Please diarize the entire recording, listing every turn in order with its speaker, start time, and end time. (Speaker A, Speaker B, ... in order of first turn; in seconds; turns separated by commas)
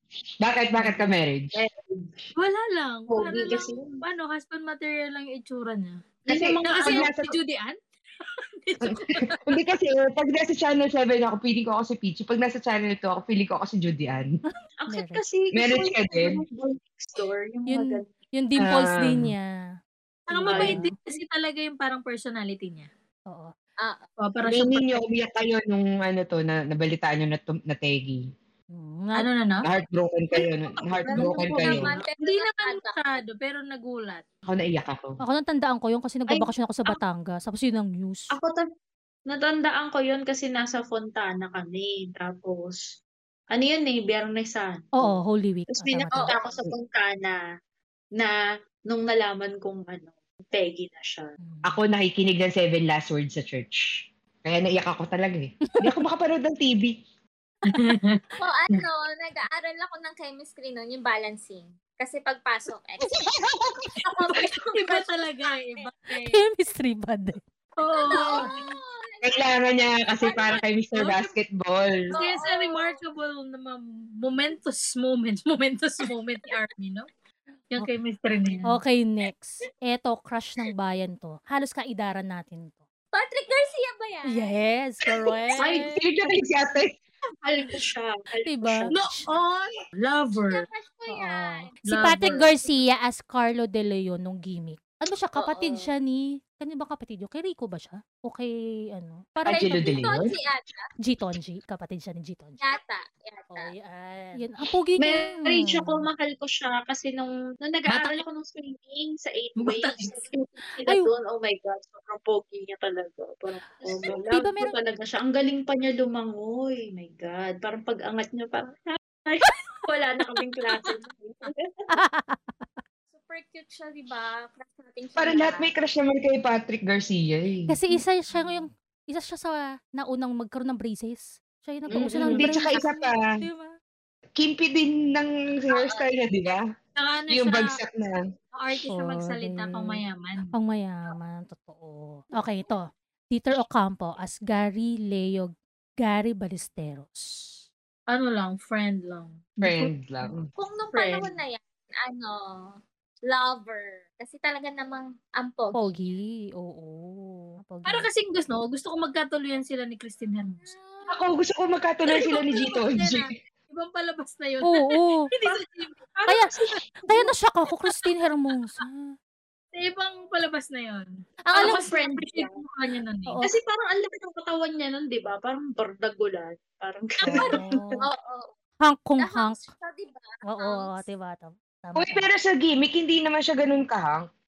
Speaker A: 0.4-1.6, Speaker B: 1.6-2.2, Speaker C: 2.4-6.1, Speaker B: 3.1-4.0, Speaker B: 6.3-7.1, Speaker A: 6.3-7.3, Speaker C: 6.7-9.4, Speaker A: 8.8-14.3, Speaker B: 14.8-18.1, Speaker D: 14.9-15.2, Speaker A: 15.5-16.4, Speaker D: 17.7-19.6, Speaker A: 18.6-19.3, Speaker C: 20.3-22.9, Speaker B: 20.3-20.9, Speaker D: 20.6-20.9, Speaker E: 23.8-24.1, Speaker C: 24.2-25.0, Speaker A: 24.5-28.2, Speaker D: 28.8-29.3, Speaker C: 29.1-29.7, Speaker A: 29.6-31.9, Speaker E: 30.9-33.2, Speaker B: 31.1-32.0, Speaker C: 32.2-34.2, Speaker A: 34.5-35.2, Speaker D: 35.2-38.4, Speaker B: 36.3-37.0, Speaker B: 38.3-38.7, Speaker B: 39.3-42.9, Speaker B: 43.5-45.2, Speaker D: 45.0-46.4, Speaker B: 45.7-47.4, Speaker E: 46.1-46.4, Speaker B: 48.9-51.3, Speaker D: 51.4-51.8, Speaker A: 51.6-57.0, Speaker C: 57.7-58.2, Speaker E: 58.4-63.3, Speaker A: 63.2-63.5, Speaker E: 64.0-66.4, Speaker C: 64.3-66.0, Speaker D: 66.2-67.4, Speaker C: 67.8-68.5, Speaker E: 67.9-70.6, Speaker A: 69.2-72.1, Speaker C: 71.0-71.3, Speaker E: 72.1-73.0, Speaker C: 72.1-77.1, Speaker C: 77.7-78.8, Speaker D: 78.7-82.8, Speaker E: 83.1-84.7, Speaker D: 84.3-86.0, Speaker B: 85.6-86.0, Speaker A: 85.8-86.9, Speaker B: 87.4-89.0, Speaker D: 88.5-89.3, Speaker C: 88.9-90.7, Speaker E: 90.5-91.8, Speaker D: 91.1-99.9, Speaker C: 91.8-92.5, Speaker E: 95.4-95.9, Speaker A: 99.5-100.3, Speaker E: 99.5-100.8, Speaker D: 101.0-102.7, Speaker E: 102.6-103.7, Speaker D: 103.5-106.0, Speaker B: 105.0-121.9, Speaker A: 107.9-108.2, Speaker C: 109.6-110.3, Speaker D: 113.9-114.8, Speaker D: 121.9-122.8, Speaker E: 123.1-125.7, Speaker A: 125.2-127.8, Speaker D: 127.7-133.8, Speaker A: 131.9-133.3, Speaker A: 134.4-136.6, Speaker E: 135.7-136.1, Speaker C: 137.0-137.8, Speaker A: 137.3-138.2, Speaker C: 138.5-140.5, Speaker D: 138.9-140.0, Speaker D: 140.5-147.6, Speaker C: 148.1-149.9, Speaker A: 149.6-150.5, Speaker E: 150.6-152.7, Speaker B: 150.9-151.3, Speaker E: 153.3-156.0, Speaker D: 155.7-158.1, Speaker C: 157.9-160.7, Speaker E: 160.7-161.2, Speaker A: 161.1-163.3, Speaker C: 162.1-166.8, Speaker D: 164.7-165.3, Speaker D: 167.1-169.2, Speaker C: 169.7-173.4, Speaker D: 171.5-171.9, Speaker B: 171.6-172.6, Speaker D: 173.3-173.5, Speaker B: 173.4-178.0, Speaker C: 177.2-177.6, Speaker D: 177.3-178.0, Speaker E: 178.0-178.5, Speaker D: 178.8-179.6, Speaker E: 179.2-181.1, Speaker D: 180.4-182.3, Speaker A: 182.0-184.2